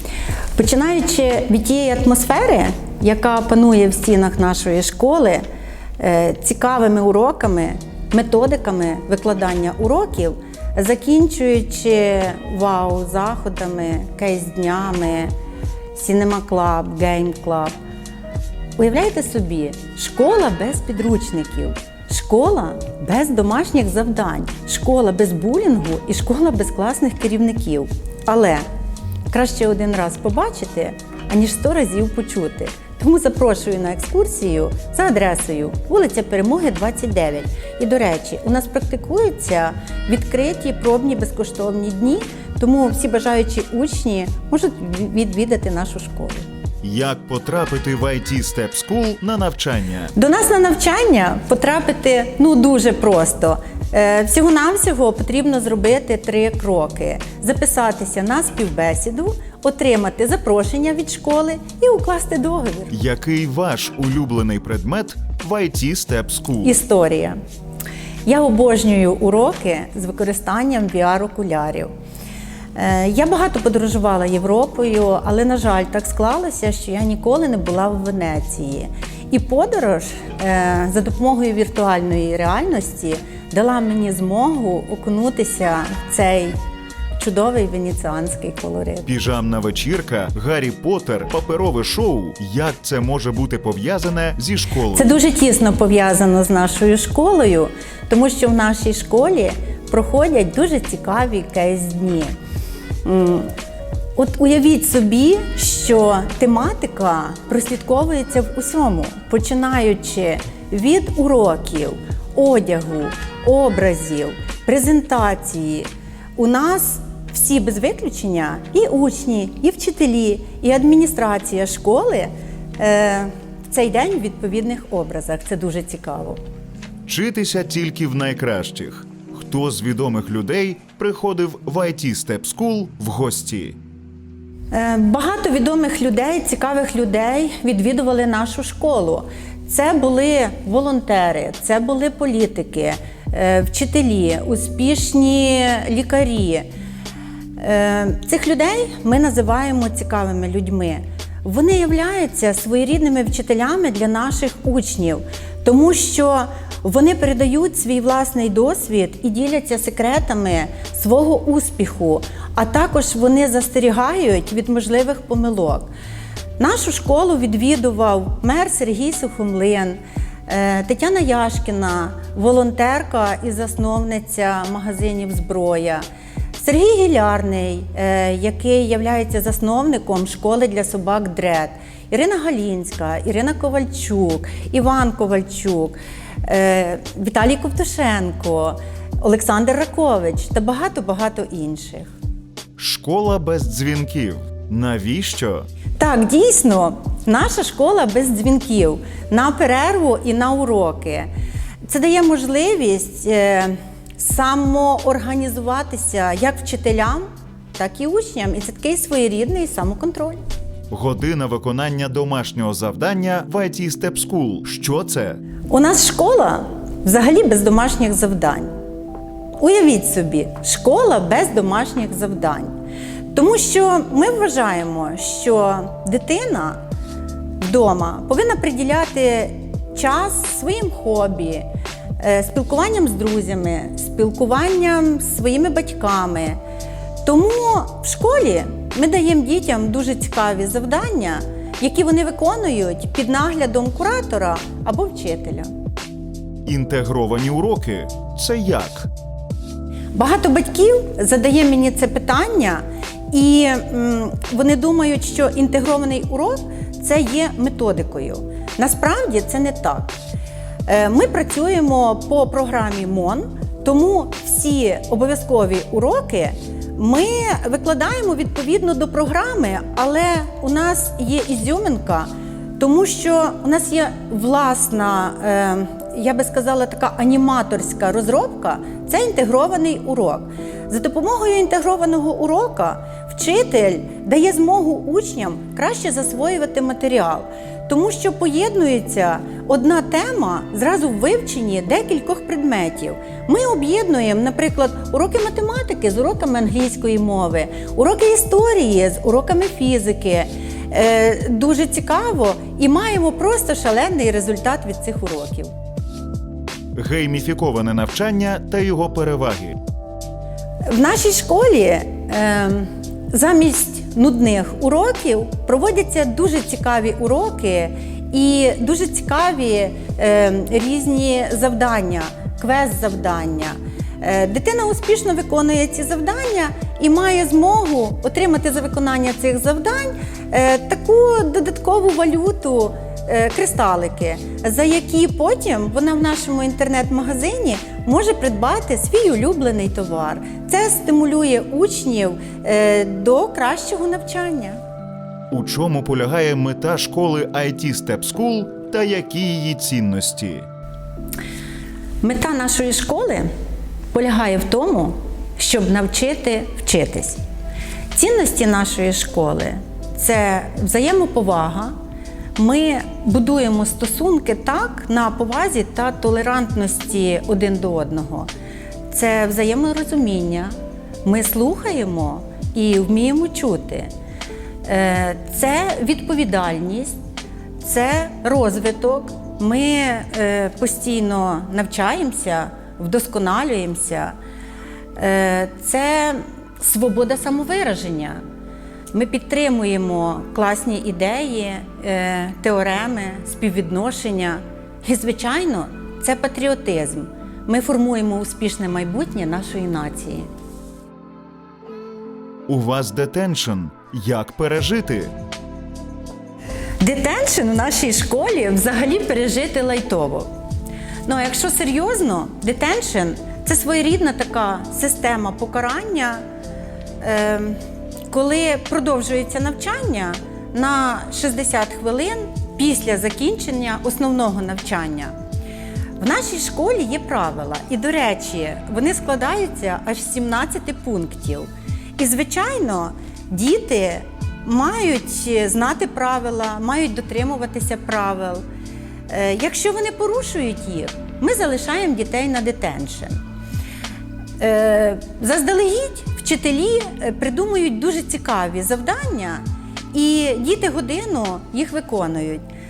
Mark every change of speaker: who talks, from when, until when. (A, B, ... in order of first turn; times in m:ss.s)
0:00.6-0:05.4 A
0:06.0-0:15.3 A
0:16.0-0:17.7 A
0:18.8-0:28.6 A
0:29.3-0:46.5 A
0:46.8-0:50.1 B
0:50.2-1:02.9 A
1:02.9-1:06.8 B
1:06.6-1:07.4 A
1:08.3-1:11.9 A
1:12.8-1:26.6 A
1:27.2-1:29.1 A
1:29.1-1:35.1 B
1:34.9-1:42.4 A
1:43.0-1:43.5 A
1:44.2-2:06.4 A
2:07.1-2:13.8 B
2:14.7-2:26.7 A
2:27.6-2:45.9 A
2:46.6-2:56.0 A
2:56.6-3:12.1 A
3:12.8-3:15.7 B
3:16.0-3:21.3 A
3:21.9-3:30.4 A
3:30.9-3:35.4 B
3:35.7-3:38.7 A
3:39.6-3:42.7 A
3:43.3-3:46.8 A
3:47.6-3:51.7 A
3:52.2-3:56.6 A
3:57.2-4:05.7 A
4:06.7-4:09.1 B
4:10.2-4:20.1 A
4:20.9-5:05.7 A
5:07.0-5:09.8 B
5:10.9-5:44.8 A
5:45.5-5:50.7 B
5:52.2-5:53.5 A
5:54.1-5:57.4 A
5:58.1-6:01.9 A
6:02.6-6:08.5 A
6:09.1-6:14.1 A
6:14.8-6:17.2 A
6:17.8-6:24.4 A
6:25.2-6:28.4 A
6:29.1-6:40.5 A
6:42.7-6:45.3 B
6:47.0-6:50.5 A
6:51.3-6:56.4 A
6:57.2-7:05.3 A
7:06.2-7:18.6 A
7:19.3-7:23.4 A
7:24.6-7:32.6 A